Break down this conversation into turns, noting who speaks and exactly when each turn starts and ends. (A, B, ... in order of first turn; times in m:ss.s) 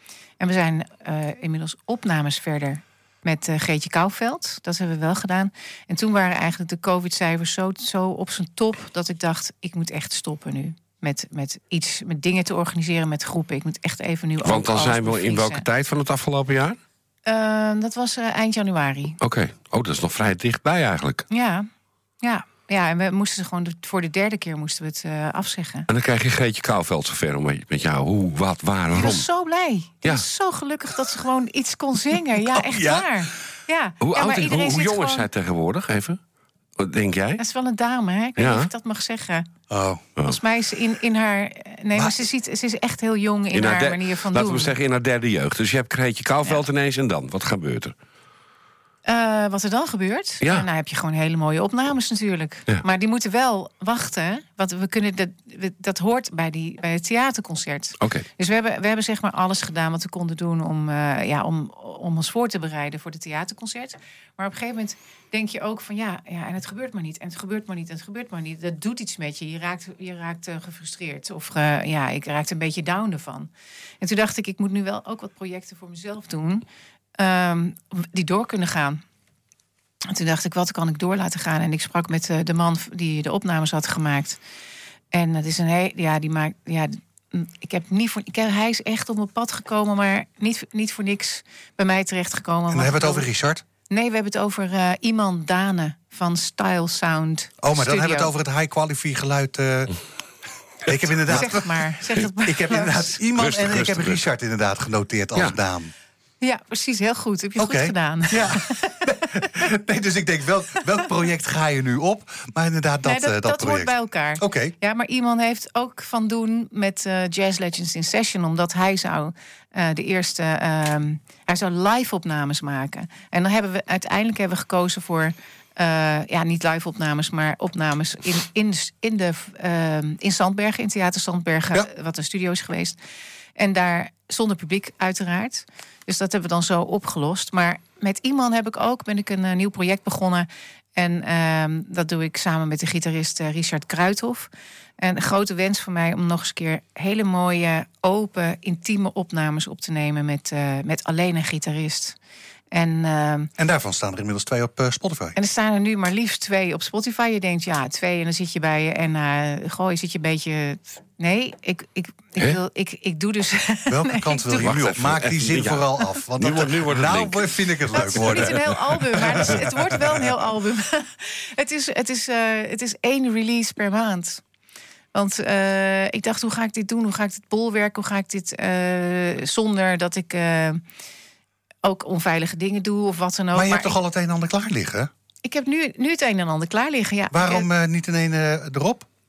0:00.4-0:15.6 A
0:14.4-0:16.8 B
0:17.2-0:19.2 A
0:19.2-0:21.2 B
0:21.3-0:21.7 A
0:22.2-0:25.8 A
0:25.9-0:29.2 B
0:28.9-0:35.3 A
0:32.4-0:33.3 C
0:34.0-0:36.2 B
0:36.8-0:37.4 B
0:37.4-0:39.5 A
0:38.4-0:38.7 B
0:39.7-0:40.0 C
0:40.2-0:44.8 A
0:41.9-0:42.2 C
0:43.5-0:47.9 B
0:49.0-1:13.5 A
0:50.4-0:50.7 B
0:58.0-0:58.2 B
1:14.0-1:16.6 A
1:17.2-1:19.0 A
1:20.1-1:24.4 A
1:25.1-1:33.3 A
1:32.7-1:33.6 C
1:33.9-1:38.3 A
1:37.6-1:40.0 C
1:40.8-1:45.9 C
1:41.3-1:43.2 A
1:43.4-1:44.2 B
1:46.4-1:48.9 A
1:47.6-1:54.7 C
1:53.0-2:13.0 A
2:13.6-2:32.2 A
2:32.7-2:33.5 A
2:33.6-2:35.4 C
2:35.4-2:44.7 A
2:43.9-2:50.1 C
2:44.6-2:45.9 B
2:46.4-2:48.5 B
2:47.9-2:54.4 A
2:55.1-3:00.8 A
3:01.8-3:04.0 A
3:03.5-3:05.1 C
3:05.4-3:07.7 A
3:07.3-3:09.0 C